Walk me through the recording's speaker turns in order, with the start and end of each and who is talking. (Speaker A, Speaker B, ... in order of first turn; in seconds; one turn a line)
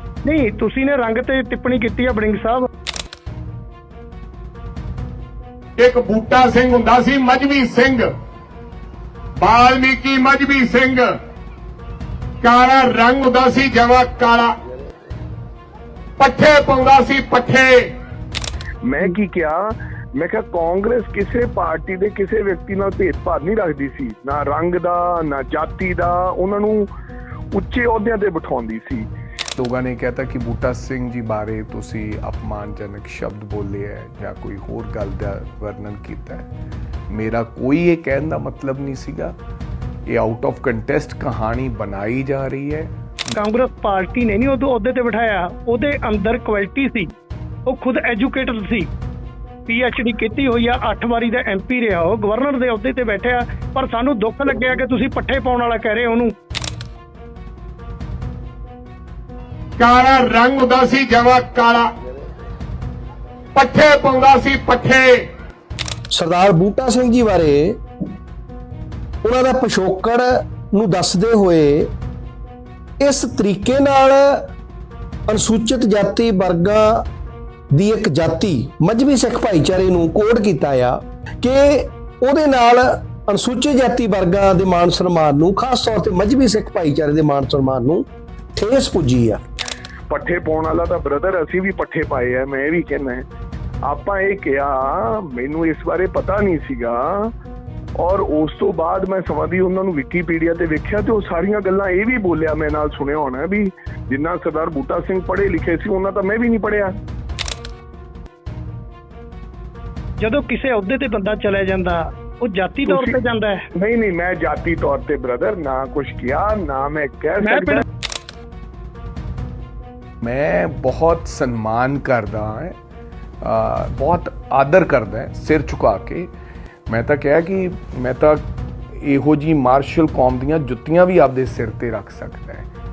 Speaker A: 0.2-2.7
Speaker B: 5.8-8.1
Speaker B: 9.4-11.1
Speaker B: 12.4-14.6
Speaker B: 16.2-17.9
Speaker C: 18.8-26.9
Speaker C: 27.5-29.1
Speaker D: 29.6-36.5
Speaker D: 37.1-39.4
Speaker D: 40.1-42.9
Speaker A: 43.4-47.1
Speaker A: 47.7-48.9
Speaker A: 49.7-56.3
Speaker B: 59.8-61.9
Speaker B: 63.5-65.3
Speaker E: 66.1-67.8
Speaker E: 69.2-71.9
Speaker E: 73.0-74.5
Speaker E: 75.3-77.0
Speaker E: 77.7-89.4
Speaker C: 90.1-93.2
Speaker C: 93.8-97.3
Speaker C: 98.0-106.9
Speaker A: 110.2-113.6
Speaker C: 112.9-113.2
Speaker C: 113.8-117.8
Speaker A: 117.4-117.8
Speaker D: 120.2-122.8
Speaker D: 123.4-126.3
Speaker D: 126.9-132.7